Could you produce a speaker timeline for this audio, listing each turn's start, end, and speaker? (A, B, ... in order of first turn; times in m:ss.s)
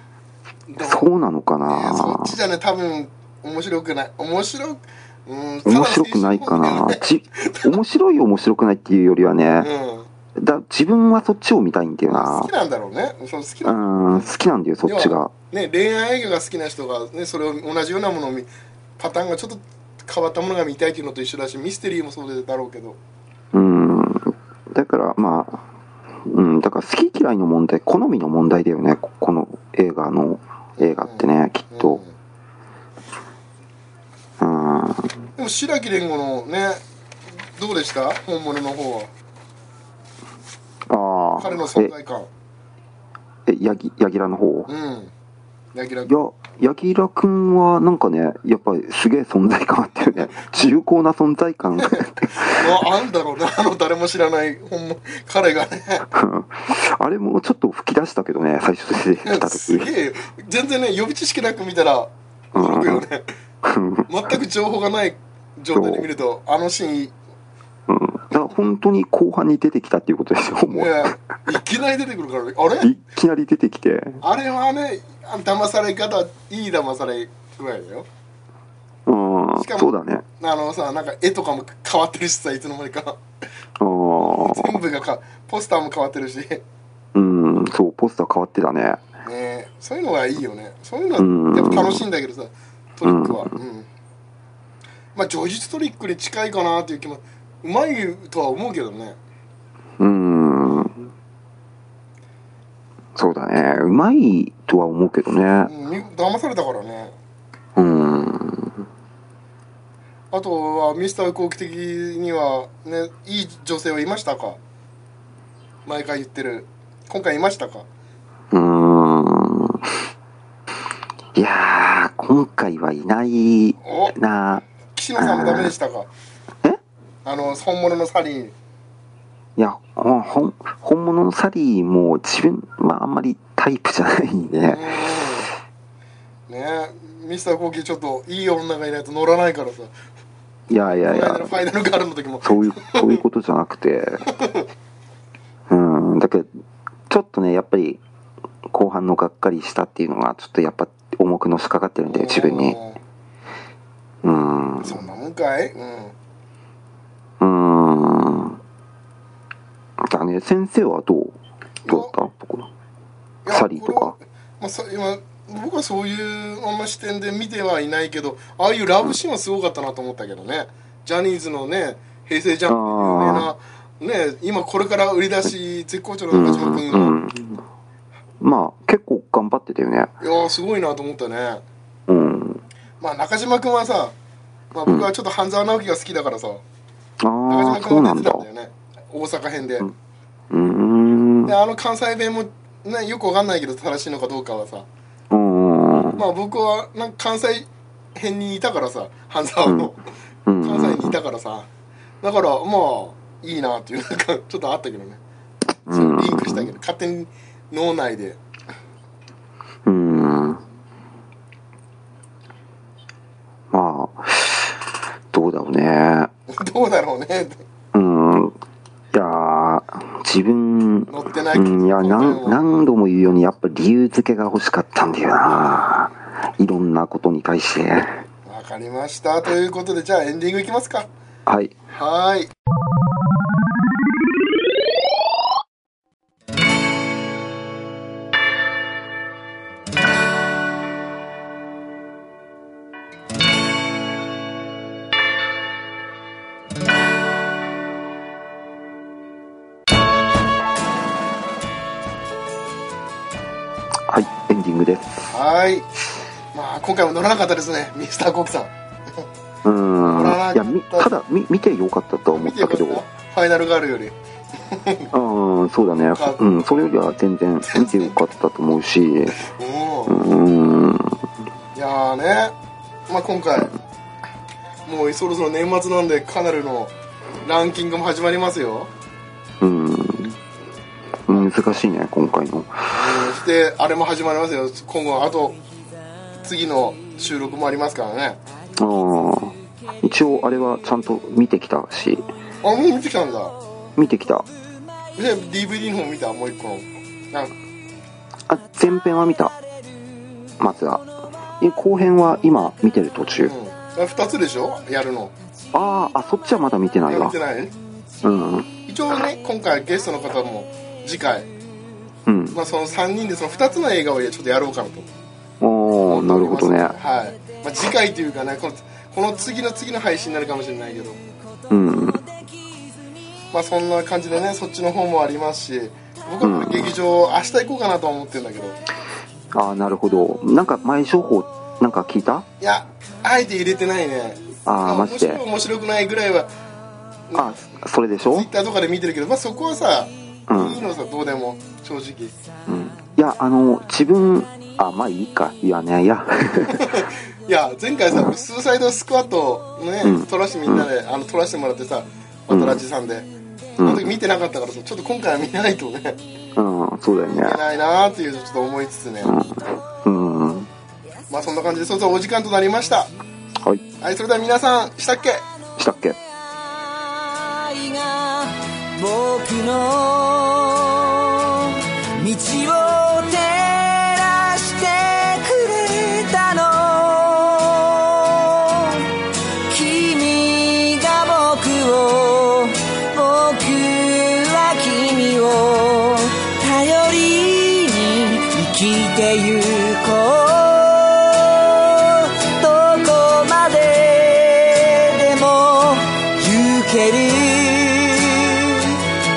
0:00.7-0:01.1 A
0:00.8-0:02.4 B
0:01.6-0:07.7 A
0:05.6-0:09.7 B
0:09.6-0:10.1 A
0:10.4-0:12.5 B
0:12.1-0:14.3 A
0:13.6-0:15.3 B
0:14.8-0:23.0 A
0:23.5-0:25.6 B
0:26.2-0:32.0 B
0:30.8-0:32.1 A
0:34.4-0:35.3 B
0:35.4-0:36.8 A
0:37.6-0:39.1 A
0:40.9-0:41.9 B
0:41.4-0:42.3 A
0:43.5-0:44.7 B
0:44.7-0:45.1 A
0:45.7-0:46.1 A
0:46.1-0:52.6 B
0:50.3-0:50.7 A
0:51.8-0:56.0 A
0:56.1-0:59.9 B
0:59.2-1:03.2 A
1:02.5-1:03.0 B
1:03.6-1:04.1 B
1:04.1-1:07.1 A
1:05.7-1:06.0 B
1:07.9-1:11.2 B
1:10.7-1:12.9 A
1:12.8-1:14.2 B
1:14.2-1:18.1 A
1:19.1-1:20.2 B
1:19.5-1:23.2 A
1:23.8-1:24.8 B
1:24.2-1:26.6 A
1:27.1-1:29.0 B
1:29.2-1:33.9 A
1:31.2-1:32.0 B
1:33.0-1:33.4 B
1:35.1-1:39.2 A
1:40.0-1:41.1 B
1:43.2-1:45.7 B
1:45.6-1:47.1 A
1:47.8-1:48.8 B
1:50.3-1:54.6 A
1:55.9-1:57.8 A
1:58.5-2:00.0 B
2:01.3-2:04.6 B
2:03.8-2:04.1 A
2:04.8-2:06.1 A
2:05.2-2:05.7 B
2:07.2-2:08.5 A
2:09.6-2:14.8 B
2:14.7-2:15.5 A
2:16.5-2:19.9 A
2:20.7-2:21.6 B
2:20.8-2:23.2 A
2:22.4-2:24.2 B
2:24.2-2:24.6 A
2:25.7-2:26.5 B
2:27.1-2:28.0 B
2:28.7-2:32.8 B
2:32.0-2:33.0 A
2:34.2-2:35.0 B
2:34.8-2:36.1 A
2:37.4-2:38.6 B
2:40.0-2:42.7 B
2:41.8-2:42.1 A
2:43.4-2:57.1 A
2:43.5-2:44.1 B
2:52.7-2:53.5 B
2:56.3-2:57.6 B
2:58.4-3:00.1 B
3:00.2-3:01.6 A
3:02.1-3:02.6 B
3:03.0-3:04.1 A
3:04.7-3:06.6 A
3:07.2-3:08.4 B
3:07.5-3:09.9 A
3:10.5-3:11.5 B
3:11.4-3:14.8 A
3:15.3-3:16.2 B
3:16.2-3:20.0 A
3:19.6-3:19.9 B
3:20.4-3:21.2 B
3:20.6-3:21.7 A
3:22.2-3:25.2 A
3:25.8-3:26.7 B
3:25.9-3:28.4 A
3:29.8-3:30.6 B
3:33.7-3:36.3 B
3:36.5-3:37.6 A
3:37.9-3:38.5 B
3:39.1-3:48.2 B
3:41.1-3:42.6 A
3:48.4-3:51.1 A
3:51.4-3:51.7 B
3:51.9-3:52.5 A
4:14.1-4:15.3 B
4:15.3-4:15.9 A
4:16.5-4:19.2 A
4:19.6-4:23.0 B
4:20.0-4:21.1 A
4:22.3-4:25.1 A
4:25.1-4:29.4 B
4:26.1-4:26.4 A
4:27.6-4:28.2 A
4:29.3-4:30.3 A
4:30.1-4:31.2 B
4:31.7-4:32.5 A
4:33.1-4:33.7 A
4:34.8-4:38.9 A
4:39.6-4:40.4 B
4:41.2-4:42.9 B
4:42.9-4:45.6 A
4:46.4-4:48.4 A
4:48.8-4:52.2 B
4:52.6-4:53.5 A
4:54.0-4:54.5 B
4:55.2-4:57.5 A
4:58.5-4:59.5 B
5:00.6-5:01.0 B
5:01.6-5:03.5 B
5:03.4-5:05.3 A
5:05.7-5:07.4 B
5:07.1-5:07.7 A
5:08.2-5:08.7 B
5:08.9-5:11.5 A
5:12.3-5:12.6 B
5:12.5-5:15.1 A
5:15.6-5:17.0 B
5:16.1-5:21.2 A
5:21.7-5:22.2 B
5:23.5-5:28.8 A
5:26.4-5:27.0 B
5:29.5-5:32.4 B
5:32.6-5:36.5 A
5:34.6-5:35.4 B
5:37.3-5:37.6 A
5:37.3-5:38.5 B
5:38.3-5:42.3 A
5:40.5-5:40.8 B
5:42.7-5:46.9 B
5:46.7-5:53.3 A
5:50.0-5:50.9 B
5:52.5-5:52.8 B
5:53.8-5:54.1 B
5:53.8-5:56.2 A
5:56.6-5:57.6 B
5:57.3-5:59.3 A
5:59.2-6:00.7 B
6:01.3-6:03.1 A
6:04.0-6:05.4 A
6:05.8-6:06.2 B
6:06.6-6:39.0 C